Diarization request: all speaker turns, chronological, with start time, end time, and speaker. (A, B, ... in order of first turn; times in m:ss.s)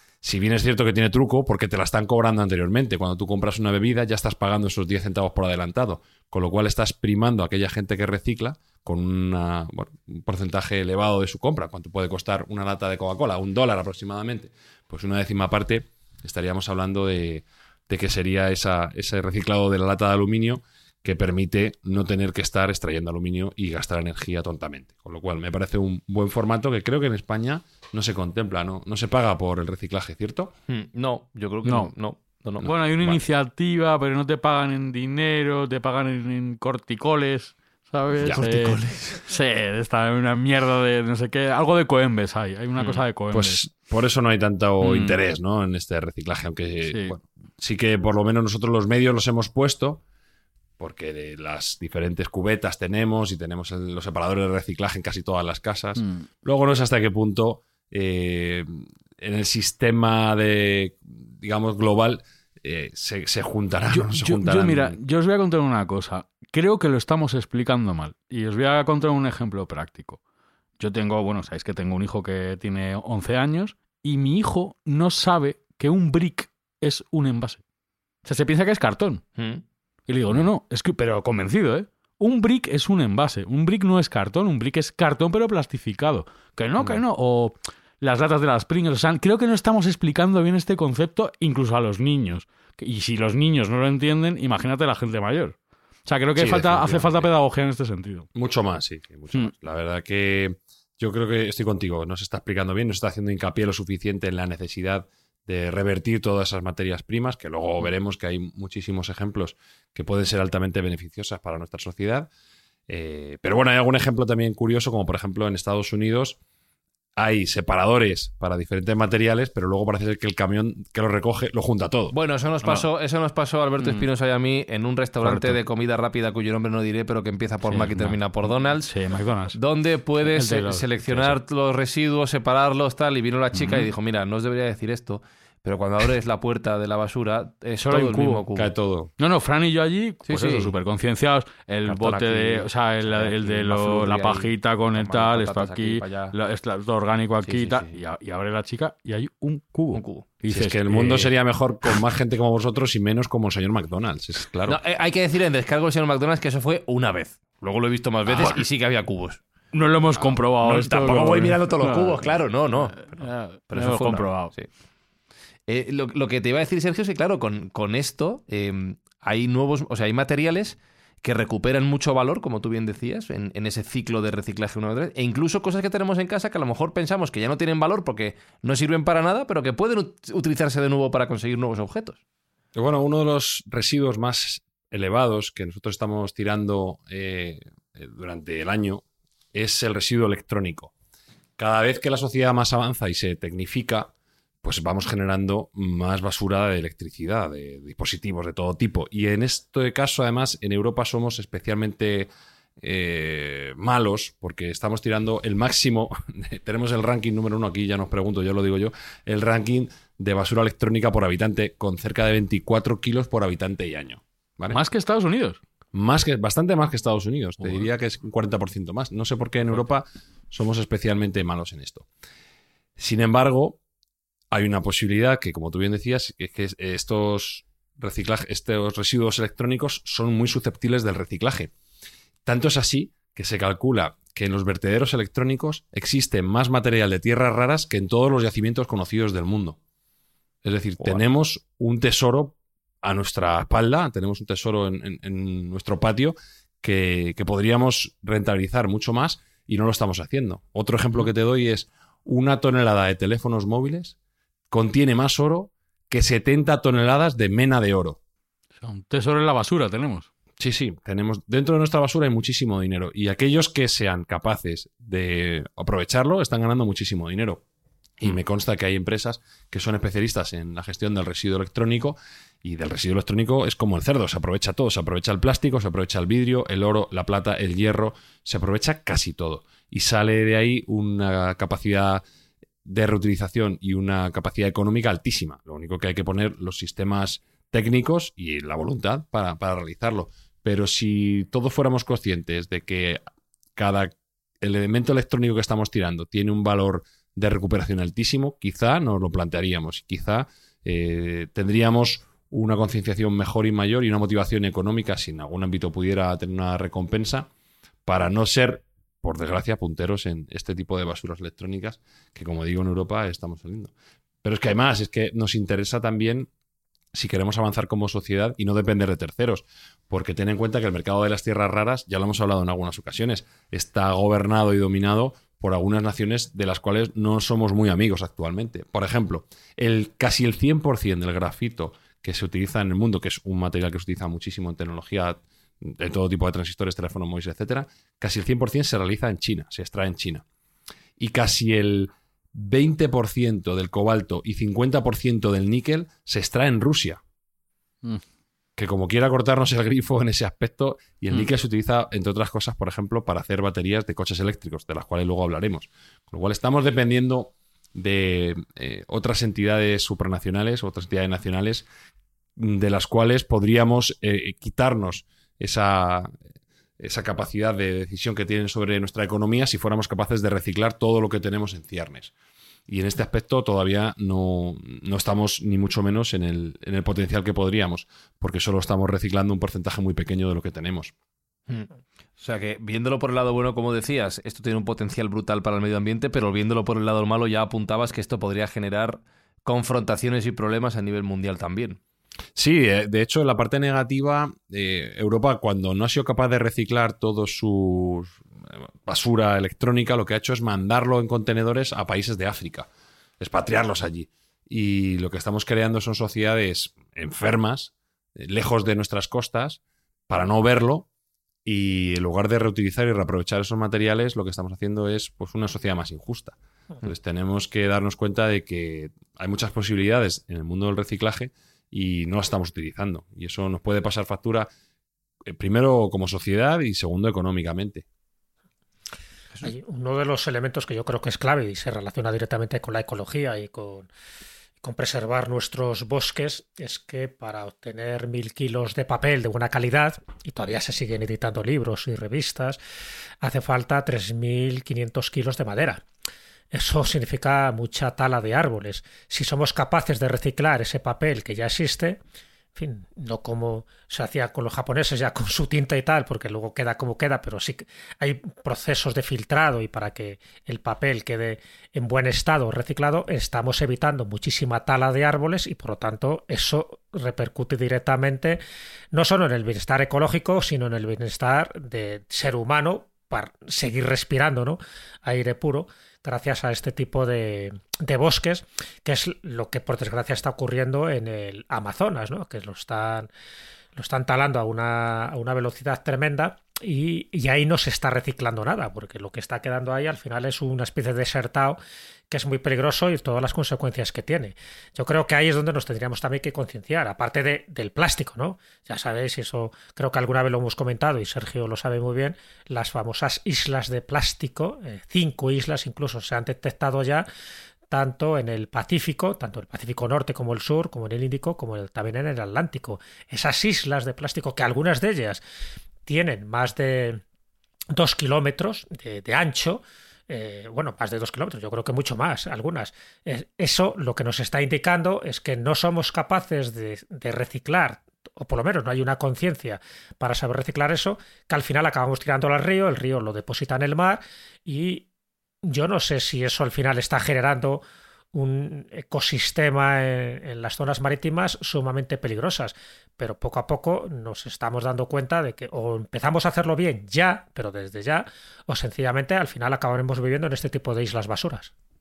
0:00.2-0:30.5 A
0:30.7-0:32.7 B
0:31.6-0:32.0 C
0:32.6-0:43.6 C
0:32.6-0:33.2 A
0:38.3-0:39.2 B
0:42.8-0:43.0 B
0:43.3-0:50.0 A
0:44.8-0:45.2 C
0:46.9-0:47.2 C
0:50.8-1:05.0 A
0:56.0-0:56.3 C
1:03.9-1:10.2 C
1:10.8-1:17.6 C
1:18.2-1:19.2 C
1:19.4-1:19.6 B
1:20.1-1:38.3 C
1:36.4-1:37.3 A
1:38.4-1:52.3 A
1:52.9-1:56.4 A
1:57.2-2:02.2 A
2:02.1-2:08.9 B
2:03.8-2:04.0 C
2:05.2-2:05.6 C
2:07.7-2:09.6 C
2:09.5-2:18.7 B
2:10.2-2:11.4 C
2:13.6-2:13.9 C
2:17.8-2:18.5 C
2:18.6-2:19.1 A
2:19.2-2:31.3 C
2:20.3-2:20.8 B
2:21.8-2:26.4 B
2:27.4-2:28.0 B
2:29.9-2:30.3 B
2:30.5-2:34.8 A
2:34.7-2:39.4 B
2:38.3-2:38.6 C
2:39.7-2:44.5 C
2:40.6-2:44.7 B
2:45.7-3:02.2 B
3:02.8-3:10.9 A
3:11.6-3:14.1 A
3:14.6-3:34.8 A
3:34.7-3:35.6 C
3:35.9-3:42.1 A
3:43.0-3:43.8 A
3:44.5-3:51.7 A
3:52.4-3:59.8 A
4:00.6-4:14.2 A
4:14.7-4:18.2 A
4:18.8-4:20.3 C
4:20.6-4:27.6 A
4:28.2-4:42.2 A
4:42.8-4:53.2 A
4:53.8-5:07.5 A
5:08.1-5:13.9 A
5:14.4-5:16.5 A
5:17.1-5:40.4 A
5:41.2-5:47.2 A
5:48.8-6:01.9 A
6:02.6-6:06.4 A
6:07.0-6:12.3 A
6:12.9-6:21.1 A
6:21.7-6:32.0 B
6:32.6-6:42.9 A
6:43.4-6:51.1 A
6:51.7-7:04.7 A
7:05.5-7:08.1 A
7:09.6-7:14.1 D
7:14.8-7:22.8 D
7:23.4-7:26.0 D
7:26.7-7:32.2 D
7:32.8-7:48.6 D
7:49.1-8:03.3 D
8:04.0-8:11.8 D
8:12.3-8:27.3 D
8:27.9-8:35.4 D
8:36.1-8:37.2 D
8:37.9-8:55.1 D
8:55.6-9:11.7 D